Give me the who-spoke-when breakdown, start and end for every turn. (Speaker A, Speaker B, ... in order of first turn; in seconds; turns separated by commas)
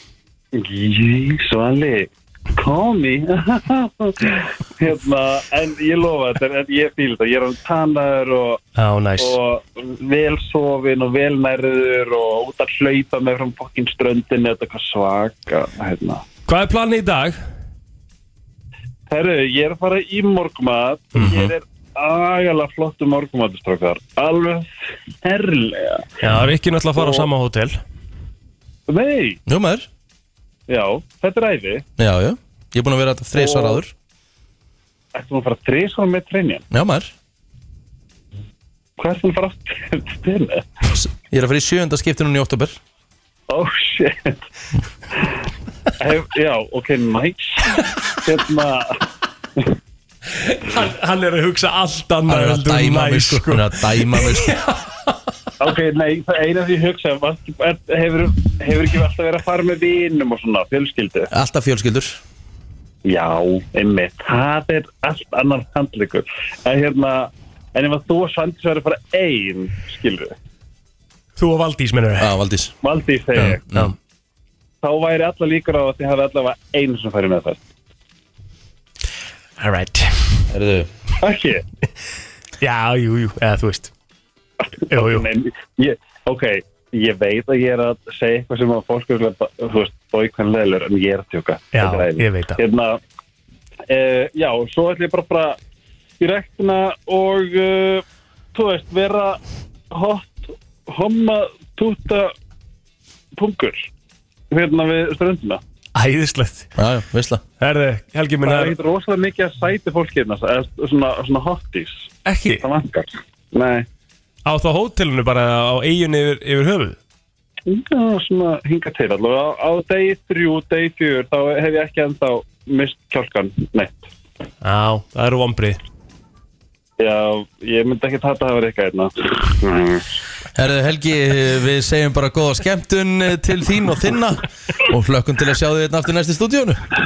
Speaker A: 0.5-8.6, Speaker B: 8.8-9.4, Speaker A: 9.2-16.2, Speaker B: 16.5-17.4, Speaker A: 19.1-26.1, Speaker B: 21.1-21.5, Speaker B: 26.2-27.8, Speaker A: 27.0-27.3, Speaker A: 28.9-29.4, Speaker C: 29.5-29.9, Speaker A: 30.7-31.8, Speaker C: 32.0-33.9, Speaker A: 33.3-33.8, Speaker A: 35.1-36.6, Speaker C: 36.7-37.1, Speaker A: 39.0-40.7, Speaker C: 40.9-42.8, Speaker A: 43.5-44.4, Speaker A: 46.0-49.0, Speaker B: 50.3-55.1, Speaker C: 52.3-54.6, Speaker A: 55.6-61.3, Speaker C: 61.3-62.2, Speaker A: 63.0-70.3, Speaker B: 71.4-72.3, Speaker C: 72.2-72.7, Speaker A: 72.8-73.6, Speaker C: 73.3-73.9, Speaker A: 74.8-77.6, Speaker B: 79.6-80.5, Speaker C: 80.5-80.9, Speaker A: 81.2-81.6, Speaker B: 82.6-83.9, Speaker A: 84.8-93.0, Speaker B: 84.9-85.3, Speaker B: 91.7-92.6, Speaker A: 93.9-95.6, Speaker A: 96.2-99.4, Speaker A: 99.9-102.3, Speaker A: 103.3-103.9, Speaker A: 104.5-105.6, Speaker B: 106.0-106.7, Speaker C: 106.8-107.4, Speaker B: 107.6-108.8, Speaker A: 108.4-113.9, Speaker B: 112.2-112.7, Speaker B: 114.5-117.0, Speaker A: 117.7-124.1, Speaker B: 124.6-125.8, Speaker A: 127.0-130.1, Speaker C: 130.6-136.8